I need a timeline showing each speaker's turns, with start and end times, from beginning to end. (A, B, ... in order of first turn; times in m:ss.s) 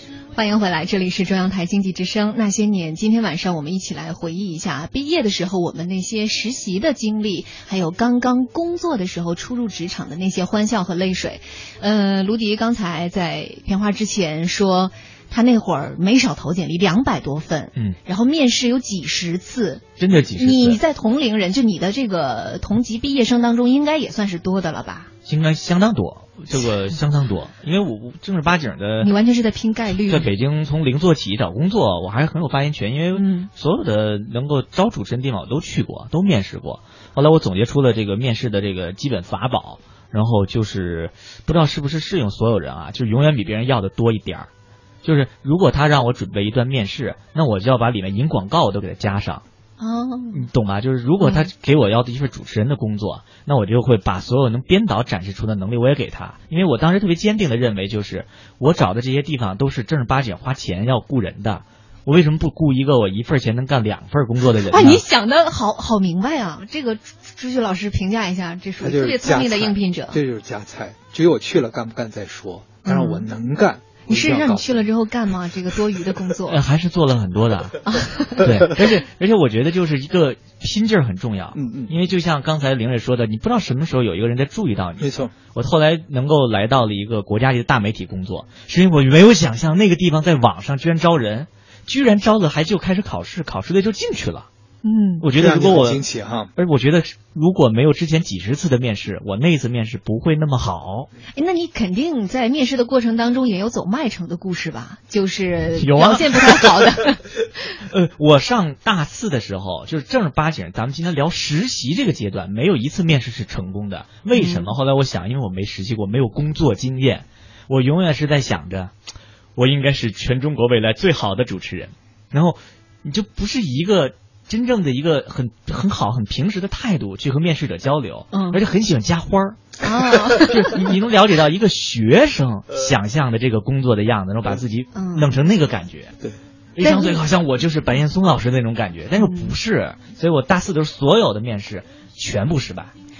0:00.3-0:25.1 A
0:20.0-0:20.8 B
0:25.2-0:29.1 B
0:29.0-0:30.3 A
0:30.1-0:44.5 B
0:33.1-0:33.5 A
0:45.0-0:49.4 B
0:49.8-0:50.5 A
0:50.3-1:05.0 B
0:51.2-0:51.5 A
1:04.6-1:10.2 A
1:08.8-1:14.9 C
1:12.8-1:13.2 A
1:14.1-1:16.6 A
1:16.5-1:34.5 B
1:17.8-1:18.5 A
1:21.5-1:21.9 C
1:25.0-1:25.3 C
1:34.8-1:35.2 A
1:35.2-1:36.0 B
1:35.3-1:36.5 C
1:36.6-1:41.1 B
1:41.4-1:47.2 A
1:45.8-1:46.7 B
1:47.8-1:58.9 B
1:54.3-1:54.7 A
1:59.6-2:09.8 B
2:08.3-2:08.6 A
2:09.8-2:10.7 A
2:10.4-2:16.2 B
2:14.9-2:15.3 A
2:16.8-2:22.9 B
2:16.8-2:17.2 A
2:19.2-2:19.5 A